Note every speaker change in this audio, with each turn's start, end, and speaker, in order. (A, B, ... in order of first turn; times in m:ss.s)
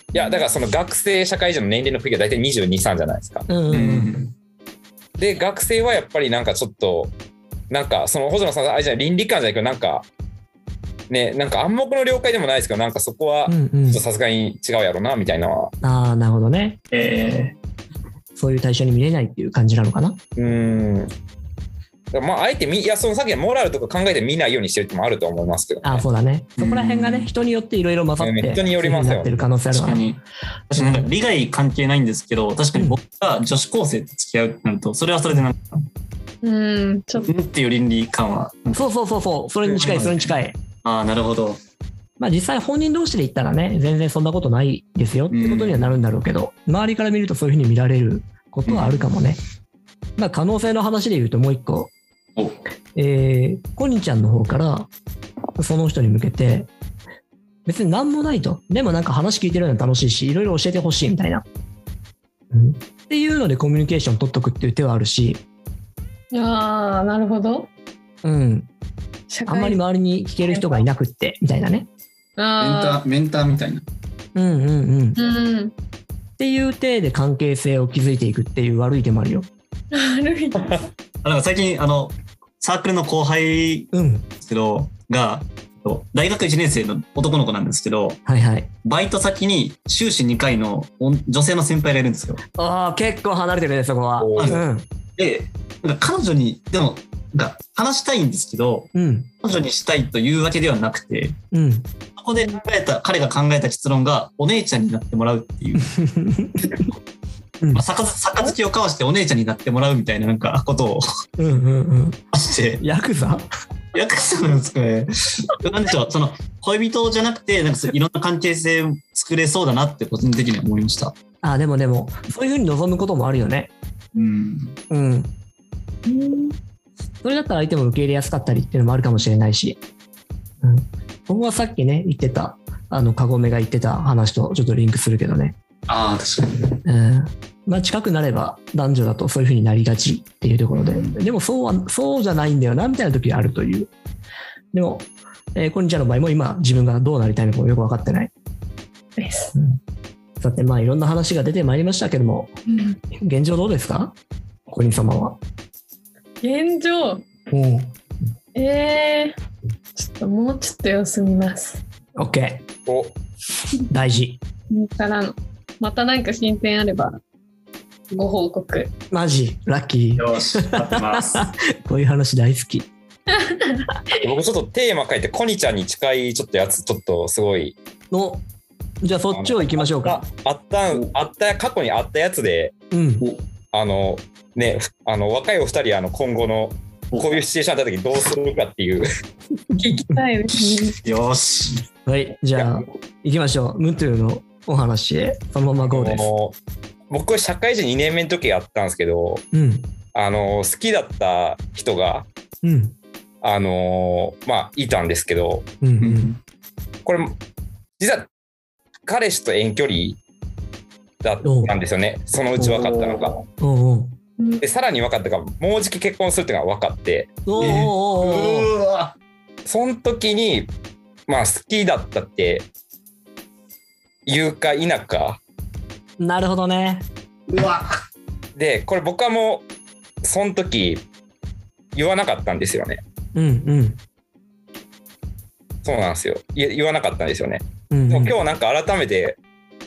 0:00.1-0:03.5 A
0:03.5-0:04.1 B
0:03.7-0:04.3 C
0:05.2-0:07.1 A
0:07.7-0:10.1 A
0:11.1-0:15.7 A
0:13.4-0:14.0 B
0:15.8-0:16.8 B
0:16.9-0:17.5 C
0:18.4-0:20.2 B
0:20.4-0:21.1 A
0:22.1-0:26.1 A
0:25.8-0:30.0 B
0:26.6-0:27.3 C
0:28.2-0:29.4 A
0:29.7-0:35.9 C
0:30.8-0:31.1 B
0:36.4-0:37.3 D
0:37.2-0:38.8 C
0:38.7-0:40.6 B
0:39.7-0:41.6 C
0:42.2-0:49.4 B
0:45.3-0:46.0 C
0:48.7-0:49.1 C
0:50.2-0:51.9 B
0:53.0-0:54.9 B
0:55.6-0:56.7 B
0:57.6-1:01.4 B
1:02.5-1:05.4 B
1:06.3-1:07.7 D
1:08.2-1:08.7 B
1:09.3-1:09.8 D
1:09.5-1:11.9 B
1:12.4-1:13.0 D
1:12.6-1:13.8 C
1:14.3-1:15.2 B
1:15.2-1:15.7 D
1:16.4-1:19.5 B
1:19.9-1:20.8 D
1:21.2-1:23.9 C
1:23.9-1:24.3 B
1:24.4-1:28.2 C
1:28.2-1:28.7 B
1:28.8-1:32.4 C
1:32.6-1:34.8 B
1:34.2-1:34.6 A
1:35.2-1:38.9 C
1:38.9-1:39.3 B
1:39.4-1:41.4 C
1:41.5-1:41.9 B
1:42.2-1:45.8 C
1:45.9-1:46.8 B
1:47.7-1:51.0 C
1:51.4-1:52.2 B
1:52.3-1:52.8 C
1:52.8-1:53.5 B
1:53.9-2:01.1 C
2:01.4-2:03.7 B
2:04.2-2:04.7 C
2:04.9-2:05.3 B
2:06.1-2:06.6 D
2:07.2-2:09.8 B
2:10.6-2:15.6 B
2:15.9-2:16.8 C
2:16.8-2:23.9 B
2:20.9-2:21.2 C
2:24.7-2:28.3 B
2:29.2-2:29.5 D
2:30.4-2:32.5 B
2:32.7-2:33.0 D
2:33.2-2:34.2 B
2:34.7-2:35.4 B
2:36.4-2:37.2 D
2:37.5-2:37.9 B
2:38.6-2:39.3 D
2:39.9-2:41.8 D
2:42.2-2:42.6 B
2:42.8-2:43.2 A
2:43.9-2:44.4 B
2:44.7-2:47.2 D
2:48.1-2:48.9 D
2:49.1-2:52.9 B
2:50.2-2:51.4 C
2:53.4-2:53.8 D
2:54.2-2:57.8 A
2:58.1-2:58.4 B
2:59.0-3:00.2 B
2:59.3-3:02.7 A
3:02.9-3:03.2 B
3:03.7-3:09.1 A
3:09.7-3:11.0 D
3:10.5-3:11.8 C
3:12.1-3:16.3 B
3:15.9-3:16.6 A
3:17.1-3:19.4 A
3:19.5-3:19.9 B
3:20.1-3:22.3 A
3:22.6-3:22.9 B
3:23.4-3:25.7 A
3:25.8-3:26.3 B
3:26.0-3:26.4 C
3:27.1-3:27.3 A
3:28.0-3:28.3 A
3:29.0-3:30.2 A
3:31.2-3:33.4 A
3:31.4-3:31.8 B
3:32.6-3:33.3 C
3:33.6-3:34.2 B
3:34.6-3:37.3 A
3:37.4-3:38.7 B
3:37.6-3:39.1 C
3:39.7-3:40.7 A
3:41.3-3:42.7 A
3:44.2-3:45.4 A
3:46.2-3:47.1 B
3:47.5-3:47.8 C
3:48.6-3:49.6 A
3:50.2-3:51.0 A
3:51.9-3:53.0 A
3:53.3-3:54.0 B
3:55.8-3:59.4 A
3:57.9-3:58.4 B